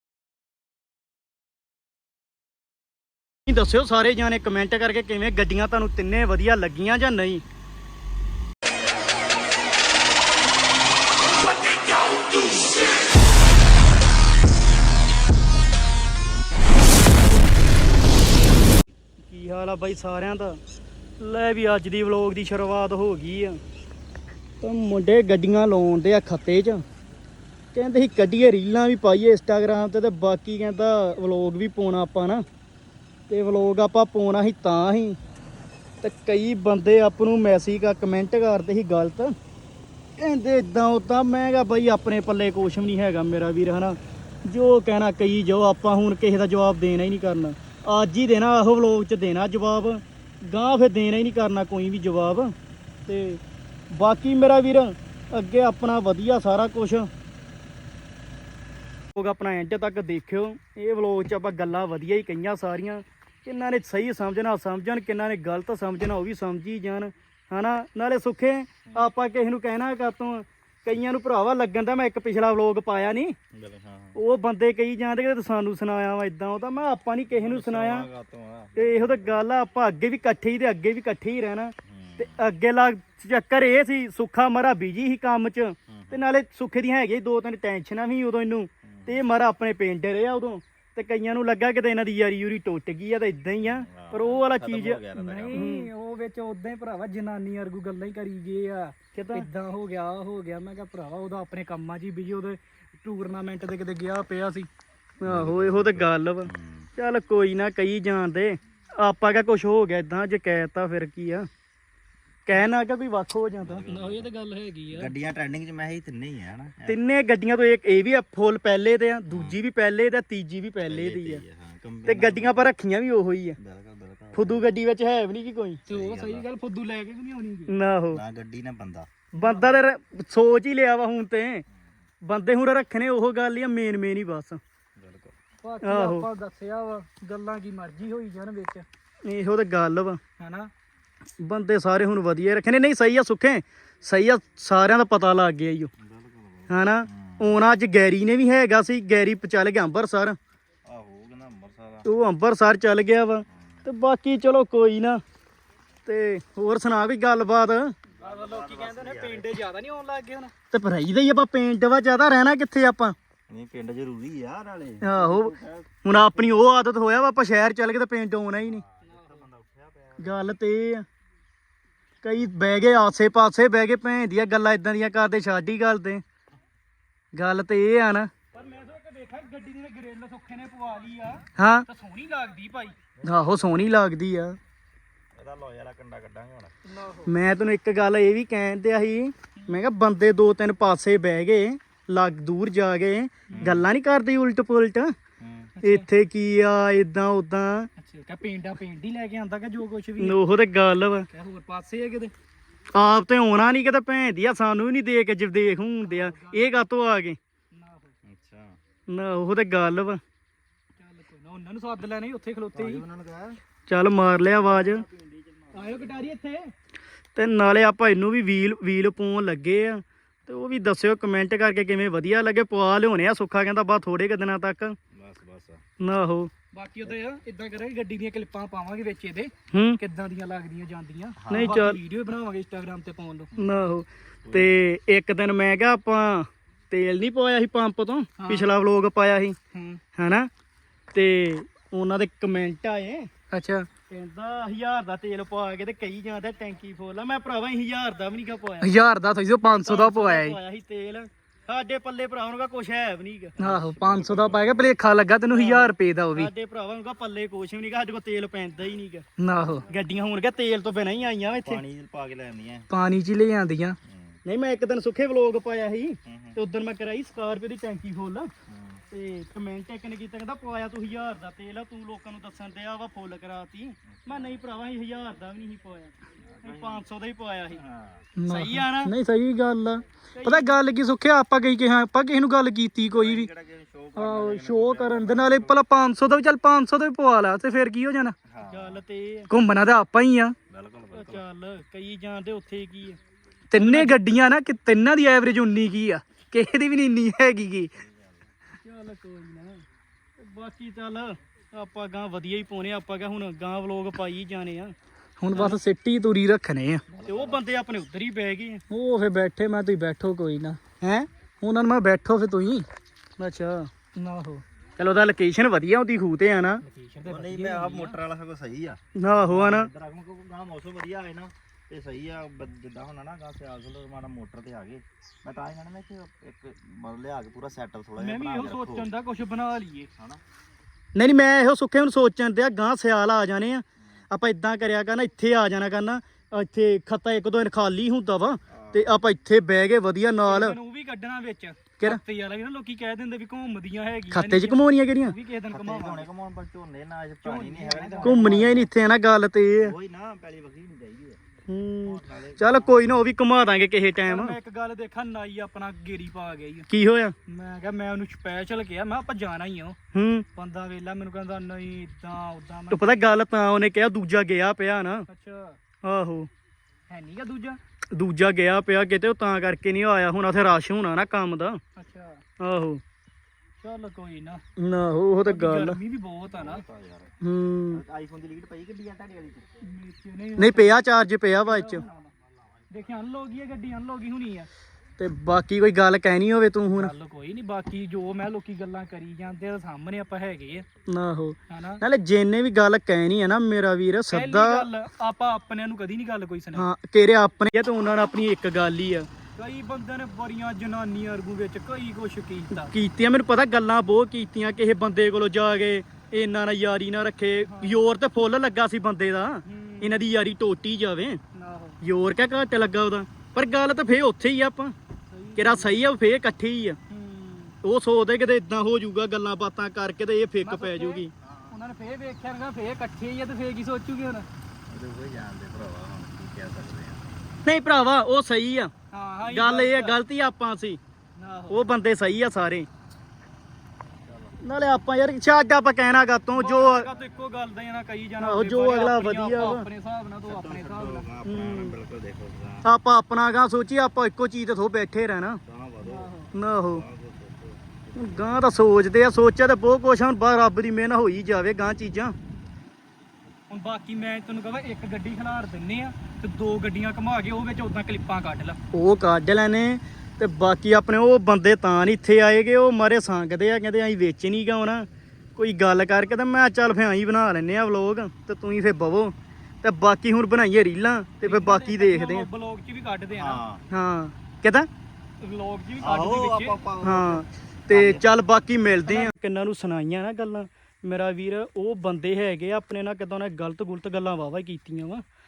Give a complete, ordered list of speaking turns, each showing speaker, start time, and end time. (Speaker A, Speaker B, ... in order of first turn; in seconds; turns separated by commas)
Speaker A: 3.5-7.4, Speaker A: 19.2-20.6, Speaker A: 21.2-23.6, Speaker A: 24.6-26.8, Speaker A: 27.7-32.4, Speaker A: 33.3-35.2, Speaker A: 36.0-39.3, Speaker A: 40.2-52.5, Speaker A: 53.0-57.1, Speaker A: 59.1-73.3, Speaker B: 73.5-74.2, Speaker A: 74.1-78.1, Speaker B: 77.3-79.4, Speaker A: 78.8-95.0, Speaker B: 81.8-82.5, Speaker B: 85.9-86.2, Speaker B: 88.8-89.2, Speaker B: 93.6-95.7, Speaker C: 95.1-104.7, Speaker A: 95.5-95.9, Speaker A: 99.1-99.4, Speaker A: 105.2-111.5, Speaker B: 105.2-106.9, Speaker A: 112.5-113.8, Speaker B: 113.6-114.3, Speaker C: 113.8-115.1, Speaker B: 114.9-117.0, Speaker A: 116.8-121.4, Speaker B: 119.3-119.6, Speaker B: 120.9-122.7, Speaker A: 122.0-123.6, Speaker B: 123.6-124.7, Speaker A: 124.3-125.8, Speaker C: 125.9-127.7, Speaker B: 125.9-126.5, Speaker A: 127.7-128.2, Speaker B: 128.1-129.1, Speaker C: 129.3-129.8, Speaker A: 129.3-131.6, Speaker A: 132.2-134.6, Speaker B: 134.9-135.3, Speaker C: 135.6-138.8, Speaker A: 135.8-136.3, Speaker A: 139.2-140.2, Speaker C: 140.4-140.7, Speaker A: 141.4-145.9, Speaker B: 146.0-147.6, Speaker A: 146.7-150.4, Speaker B: 150.8-152.1, Speaker A: 152.0-155.2, Speaker B: 153.5-153.9, Speaker A: 156.0-157.9, Speaker B: 158.2-159.5, Speaker C: 158.2-160.5, Speaker A: 160.7-163.1, Speaker B: 163.5-166.0, Speaker A: 165.0-168.8, Speaker B: 168.6-170.6, Speaker C: 169.1-169.4, Speaker A: 170.2-171.0, Speaker A: 172.2-176.2, Speaker A: 177.3-178.3, Speaker B: 178.5-179.0, Speaker C: 178.6-182.9, Speaker A: 181.6-181.8, Speaker B: 183.2-184.1, Speaker A: 183.2-184.6, Speaker B: 185.3-186.7, Speaker C: 186.9-187.3, Speaker A: 187.2-195.1, Speaker B: 193.5-193.8, Speaker B: 195.4-195.7, Speaker C: 195.8-196.1, Speaker A: 195.8-197.9, Speaker C: 198.0-200.4, Speaker A: 200.2-201.3, Speaker C: 201.3-202.3, Speaker A: 202.9-207.4, Speaker C: 206.1-206.8, Speaker C: 207.7-208.1, Speaker B: 208.2-208.8, Speaker A: 209.1-210.2, Speaker C: 210.9-213.0, Speaker B: 212.7-213.6, Speaker A: 213.9-215.0, Speaker B: 214.8-216.2, Speaker C: 215.7-216.7, Speaker A: 217.3-224.9, Speaker B: 225.1-225.8, Speaker A: 226.0-226.5, Speaker C: 226.7-233.5, Speaker A: 229.7-230.0, Speaker B: 231.4-231.8, Speaker A: 231.5-232.0, Speaker B: 233.5-233.9, Speaker A: 233.6-239.6, Speaker B: 234.4-234.7, Speaker C: 238.4-238.7, Speaker C: 239.7-240.0, Speaker A: 240.2-240.5, Speaker A: 241.1-243.3, Speaker C: 243.5-243.9, Speaker A: 244.1-248.9, Speaker C: 248.8-250.6, Speaker A: 249.8-253.5, Speaker B: 253.6-254.9, Speaker C: 253.6-256.5, Speaker A: 255.5-259.2, Speaker C: 259.4-259.9, Speaker A: 259.9-261.8, Speaker B: 261.6-262.9, Speaker C: 262.9-264.0, Speaker B: 264.0-264.4, Speaker A: 264.4-268.5, Speaker B: 266.2-266.6, Speaker B: 268.7-269.0, Speaker A: 269.1-277.8, Speaker B: 274.1-274.6, Speaker B: 276.4-277.1, Speaker B: 277.7-278.3, Speaker C: 278.4-283.5, Speaker A: 278.5-279.1, Speaker A: 280.4-280.8, Speaker B: 283.1-285.8, Speaker C: 284.1-288.4, Speaker B: 288.5-289.0, Speaker A: 288.6-289.5, Speaker C: 289.5-290.6, Speaker B: 290.7-291.4, Speaker A: 291.1-293.2, Speaker C: 293.7-297.9, Speaker A: 293.7-294.2, Speaker B: 298.0-298.6, Speaker C: 298.9-299.6, Speaker A: 299.3-299.7, Speaker A: 300.4-304.9, Speaker C: 305.4-307.1, Speaker A: 305.5-305.8, Speaker B: 307.1-307.6, Speaker A: 307.2-308.8, Speaker C: 308.9-310.8, Speaker A: 311.0-311.3, Speaker C: 311.6-312.9, Speaker A: 313.4-313.9, Speaker C: 314.1-314.6, Speaker A: 315.0-316.8, Speaker C: 316.8-318.2, Speaker B: 317.2-329.1, Speaker A: 319.2-319.9, Speaker C: 328.2-330.1, Speaker A: 331.1-340.8, Speaker B: 338.7-339.2, Speaker C: 340.4-346.3, Speaker A: 344.3-345.3, Speaker B: 345.7-348.9, Speaker C: 347.4-348.8, Speaker A: 348.2-349.9, Speaker B: 349.8-351.4, Speaker A: 351.7-354.5, Speaker B: 352.0-353.2, Speaker C: 354.3-356.9, Speaker A: 356.9-357.3, Speaker C: 357.5-360.0, Speaker A: 360.1-360.4, Speaker C: 360.5-363.2, Speaker A: 362.9-365.2, Speaker C: 365.3-365.8, Speaker A: 366.0-366.5, Speaker C: 367.1-367.8, Speaker A: 368.1-371.8, Speaker C: 371.9-372.4, Speaker A: 372.6-373.0, Speaker C: 373.8-374.6, Speaker A: 374.8-376.0, Speaker C: 375.4-376.8, Speaker B: 376.5-377.3, Speaker A: 377.4-378.0, Speaker B: 377.9-379.7, Speaker C: 379.8-381.0, Speaker A: 380.6-382.0, Speaker C: 381.6-382.3, Speaker C: 382.9-384.7, Speaker A: 385.2-387.1, Speaker C: 386.9-390.9, Speaker A: 391.1-394.9, Speaker C: 391.7-392.0, Speaker C: 394.3-396.9, Speaker A: 396.7-399.3, Speaker C: 399.6-402.9, Speaker A: 402.7-411.4, Speaker C: 407.6-408.0, Speaker C: 409.6-410.3, Speaker C: 411.5-412.0, Speaker A: 412.0-414.9, Speaker C: 415.3-416.0, Speaker A: 415.6-417.0, Speaker C: 417.1-417.8, Speaker A: 417.8-421.3, Speaker C: 420.6-424.5, Speaker B: 421.4-421.8, Speaker B: 424.9-427.3, Speaker A: 427.6-428.9, Speaker C: 429.1-430.2, Speaker A: 429.5-431.0, Speaker C: 431.4-431.9, Speaker A: 431.7-432.9, Speaker B: 434.2-434.8, Speaker A: 434.6-437.1, Speaker C: 436.5-441.3, Speaker B: 437.1-437.5, Speaker A: 438.4-439.9, Speaker B: 440.4-442.9, Speaker A: 441.4-441.9, Speaker A: 442.8-445.6, Speaker B: 445.6-448.7, Speaker C: 446.0-446.5, Speaker A: 446.5-447.0, Speaker A: 448.1-452.3, Speaker C: 453.7-458.8, Speaker A: 458.9-472.5, Speaker C: 471.4-473.6, Speaker B: 473.3-473.8, Speaker A: 473.9-474.9, Speaker C: 475.4-476.8, Speaker B: 476.0-478.3, Speaker A: 477.0-485.2, Speaker C: 479.1-479.3